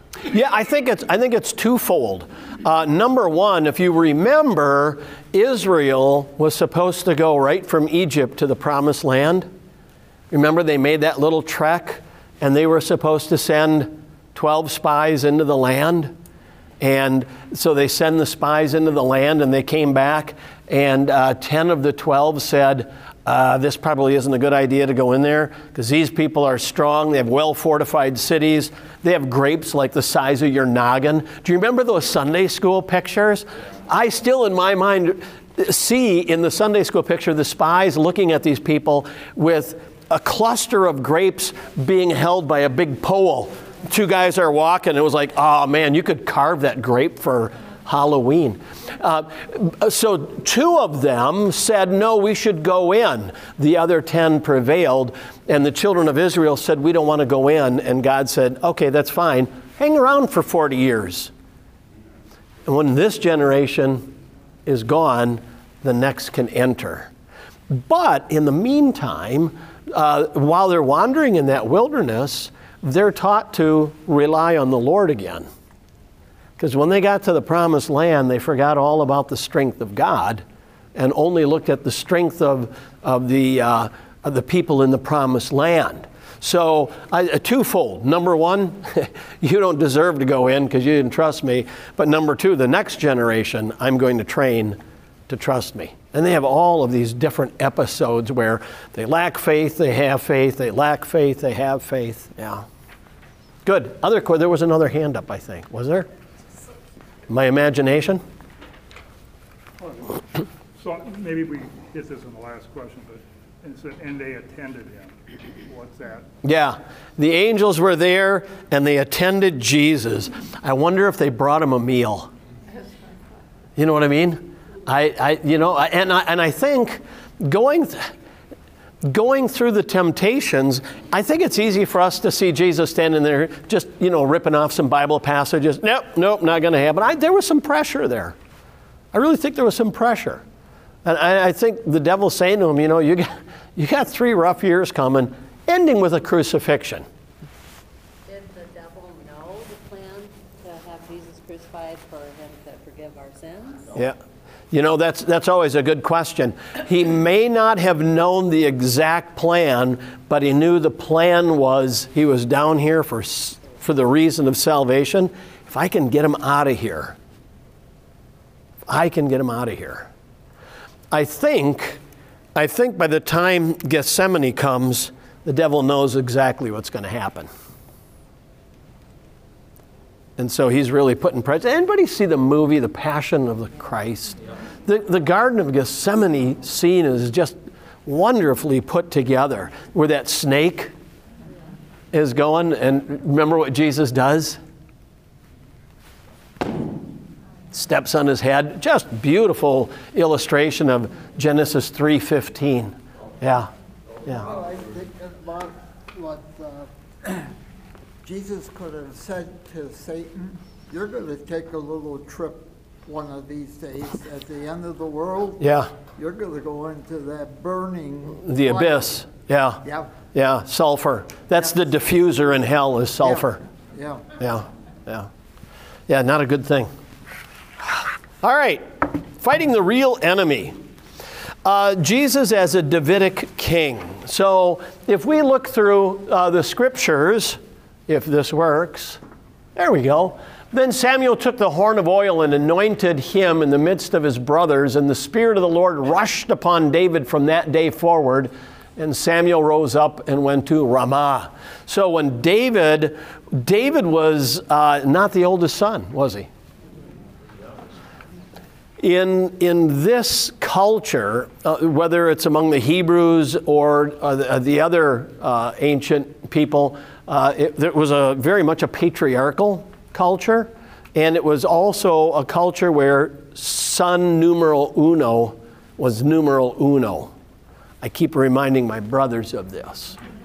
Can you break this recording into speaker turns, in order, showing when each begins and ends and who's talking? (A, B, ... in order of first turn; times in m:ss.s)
0:00.3-0:09.5 A
0:10.3-0:16.1 A
0:16.8-1:01.3 A
1:02.6-1:04.1 A
1:04.6-1:07.1 A
1:07.7-1:15.5 A
1:16.6-1:20.4 A
1:20.9-1:42.6 A
1:43.6-1:46.1 A
1:47.3-1:48.2 A
1:49.8-1:56.3 B
1:56.4-2:02.3 A
2:03.8-2:08.1 A
2:09.0-2:18.3 A
2:19.1-2:20.4 A
2:21.0-2:27.0 A
2:28.2-2:33.9 C
2:34.7-2:47.2 A
2:48.9-2:50.1 A
2:51.1-2:52.0 A
2:52.6-2:57.5 A
3:00.4-3:10.9 A
3:12.1-3:14.6 A
3:17.7-3:23.7 A
3:24.3-3:27.5 D
3:28.2-3:35.6 D
3:35.6-3:35.9 A
3:36.2-3:39.2 D
3:38.4-3:43.6 A
3:39.8-3:40.1 D
3:43.2-3:44.2 D
3:44.4-3:45.3 A
3:46.1-3:46.9 A
3:48.4-3:50.8 A
3:51.6-3:59.2 A
3:59.8-4:16.5 A
4:19.0-4:37.3 A
4:38.0-4:40.2 A